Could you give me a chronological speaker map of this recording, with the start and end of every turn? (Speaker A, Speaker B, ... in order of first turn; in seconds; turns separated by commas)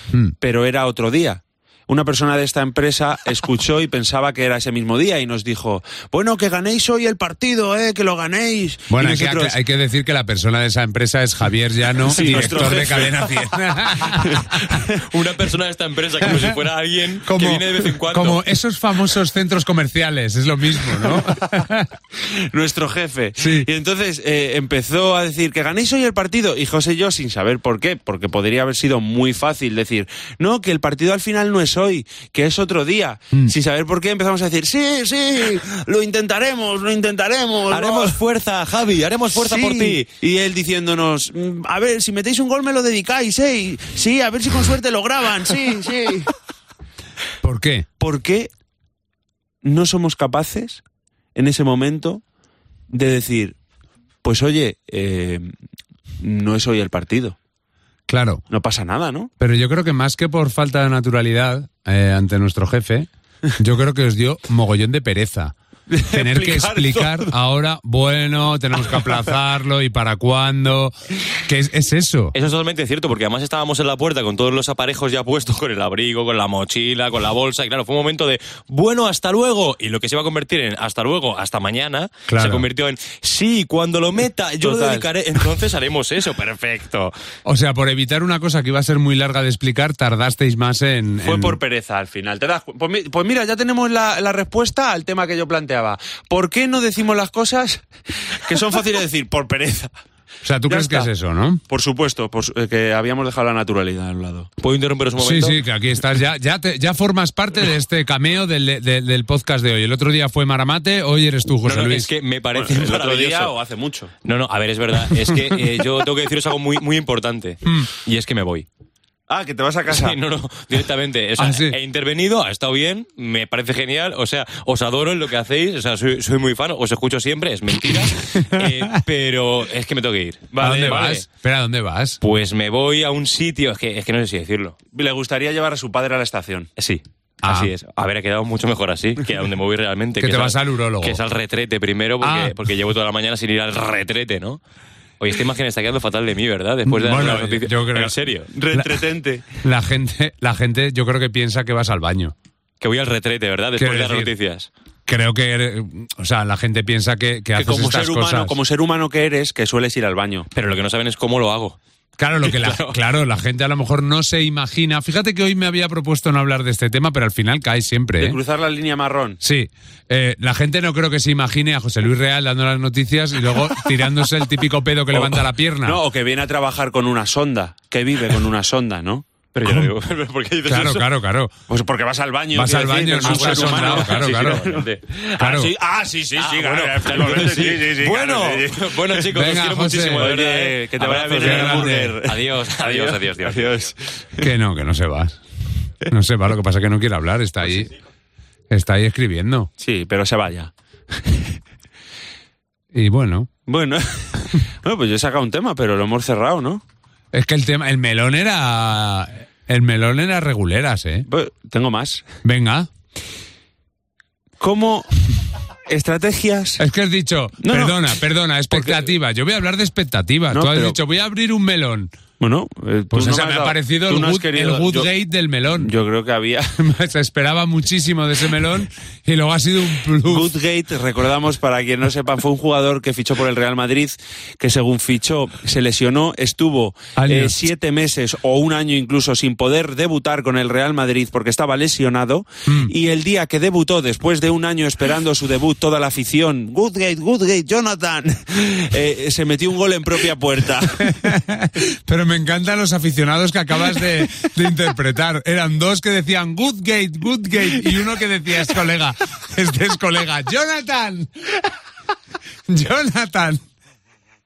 Speaker A: 0.4-9.6, Speaker B: 8.9-14.8, Speaker A: 12.1-15.0, Speaker C: 12.2-12.5, Speaker C: 14.9-18.4, Speaker B: 16.2-16.6, Speaker B: 17.2-21.9, Speaker A: 22.2-38.2, Speaker B: 23.4-23.7, Speaker C: 37.7-40.0, Speaker A: 39.3-46.3, Speaker B: 47.4-47.9, Speaker A: 48.0-48.5, Speaker A: 49.6-50.8, Speaker A: 51.3-52.2, Speaker A: 52.9-53.6, Speaker A: 54.2-55.5, Speaker A: 56.2-57.4, Speaker B: 58.1-58.4, Speaker A: 58.5-59.3, Speaker B: 59.4-65.5, Speaker A: 65.9-67.3, Speaker B: 66.1-72.3, Speaker C: 72.3-87.1, Speaker B: 82.3-82.7, Speaker A: 84.6-85.0, Speaker B: 87.4-91.6, Speaker A: 91.2-99.9, Speaker B: 100.4-101.6, Speaker A: 100.7-101.1, Speaker A: 101.7-104.5, Speaker C: 104.6-105.6, Speaker B: 105.2-112.1, Speaker C: 111.6-113.5, Speaker A: 112.5-114.1, Speaker C: 114.2-118.7, Speaker A: 119.3-120.2, Speaker C: 119.9-131.2, Speaker B: 121.4-121.8, Speaker B: 128.3-129.0, Speaker A: 130.5-131.2, Speaker B: 130.6-132.2, Speaker C: 132.2-134.8, Speaker A: 134.9-136.7, Speaker C: 136.8-144.6, Speaker B: 137.4-137.7, Speaker B: 140.2-141.2, Speaker B: 142.2-142.6, Speaker C: 145.2-148.5, Speaker B: 146.8-148.1, Speaker A: 148.5-149.6, Speaker B: 149.6-152.3, Speaker C: 152.8-154.7, Speaker B: 153.8-154.3, Speaker B: 155.1-158.6, Speaker A: 157.6-160.5, Speaker C: 160.5-161.8, Speaker B: 162.2-168.4, Speaker C: 162.4-162.9, Speaker A: 168.2-169.4, Speaker B: 169.4-176.0, Speaker A: 175.1-179.3, Speaker C: 179.5-181.1, Speaker B: 179.6-179.9, Speaker B: 180.6-181.5, Speaker A: 181.7-189.3, Speaker B: 182.5-184.6, Speaker C: 183.2-185.0, Speaker B: 185.4-185.7, Speaker C: 186.4-193.9, Speaker B: 189.3-190.3, Speaker A: 190.1-194.5, Speaker B: 191.4-192.2, Speaker B: 194.4-195.4, Speaker B: 196.1-197.9, Speaker B: 198.7-199.7, Speaker A: 199.8-201.5, Speaker B: 202.9-203.5, Speaker A: 203.7-206.8, Speaker B: 207.3-211.2, Speaker A: 211.3-212.2, Speaker B: 212.4-212.9, Speaker A: 214.6-215.2, Speaker A: 215.9-216.8, Speaker B: 216.8-222.1, Speaker A: 217.6-218.1, Speaker A: 218.7-219.1, Speaker A: 220.5-221.0, Speaker A: 222.4-225.1, Speaker B: 223.1-225.9, Speaker A: 225.7-226.8, Speaker B: 226.8-230.5, Speaker A: 230.2-251.2, Speaker B: 237.2-237.6, Speaker B: 242.7-242.9, Speaker B: 250.9-261.3, Speaker B: 262.7-263.6